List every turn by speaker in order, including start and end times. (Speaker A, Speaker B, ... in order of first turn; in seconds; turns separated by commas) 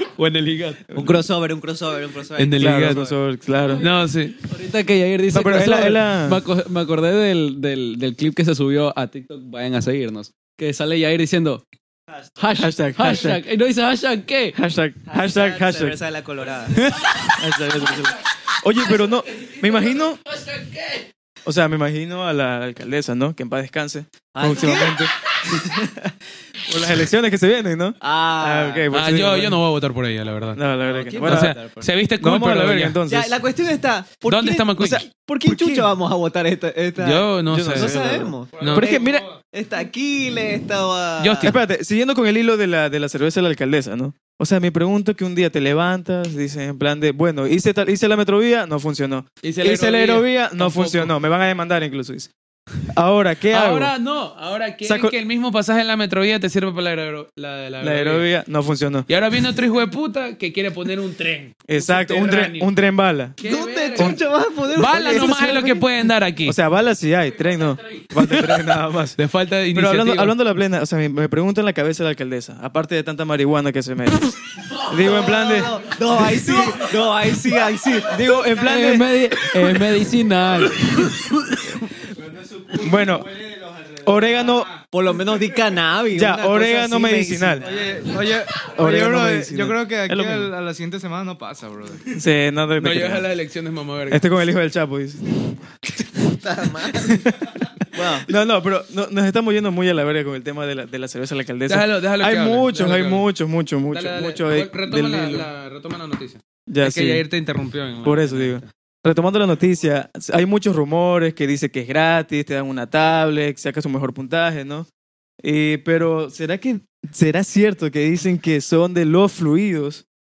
Speaker A: 0.2-0.7, Speaker B: 0.9-3.1, Speaker C: 0.9-1.2, Speaker D: 2.4-3.1, Speaker C: 2.6-3.8, Speaker D: 3.8-4.4, Speaker A: 4.4-11.6, Speaker C: 5.3-6.4, Speaker A: 12.4-14.6, Speaker C: 12.5-13.4, Speaker C: 14.5-16.0, Speaker B: 15.1-16.9, Speaker C: 17.1-20.2, Speaker A: 20.3-21.0, Speaker C: 21.4-29.6, Speaker B: 24.3-25.7, Speaker B: 28.0-28.9, Speaker D: 28.9-30.6, Speaker C: 30.5-31.6, Speaker B: 30.8-31.9, Speaker D: 31.2-33.0, Speaker C: 32.2-33.4, Speaker B: 33.1-41.5, Speaker D: 34.2-35.0, Speaker C: 34.8-35.9, Speaker D: 37.0-37.9, Speaker C: 37.5-39.3, Speaker D: 38.6-38.9, Speaker D: 41.2-41.6, Speaker C: 41.4-52.3, Speaker D: 49.4-51.1, Speaker C: 52.9-53.9, Speaker D: 53.5-58.3, Speaker C: 54.8-55.2, Speaker C: 57.8-59.1, Speaker D: 59.1-62.7, Speaker C: 61.7-63.4, Speaker D: 63.4-64.2, Speaker B: 63.4-65.9, Speaker D: 64.7-66.6, Speaker C: 66.4-69.2, Speaker D: 69.2-70.3, Speaker C: 69.7-77.2, Speaker B: 74.9-78.3, Speaker C: 78.0-79.1, Speaker A: 78.5-81.4, Speaker E: 82.2-84.1, Speaker C: 82.7-83.3, Speaker C: 84.0-84.8, Speaker B: 84.9-88.0, Speaker C: 86.1-87.7, Speaker E: 87.6-92.1, Speaker C: 88.7-90.5, Speaker C: 92.1-93.3, Speaker D: 92.8-94.2, Speaker C: 94.1-96.1, Speaker B: 96.3-97.3, Speaker C: 96.9-105.5, Speaker B: 97.9-98.3, Speaker D: 101.7-103.3, Speaker D: 103.9-108.7, Speaker C: 106.7-107.2, Speaker C: 108.0-114.9, Speaker C: 115.4-120.0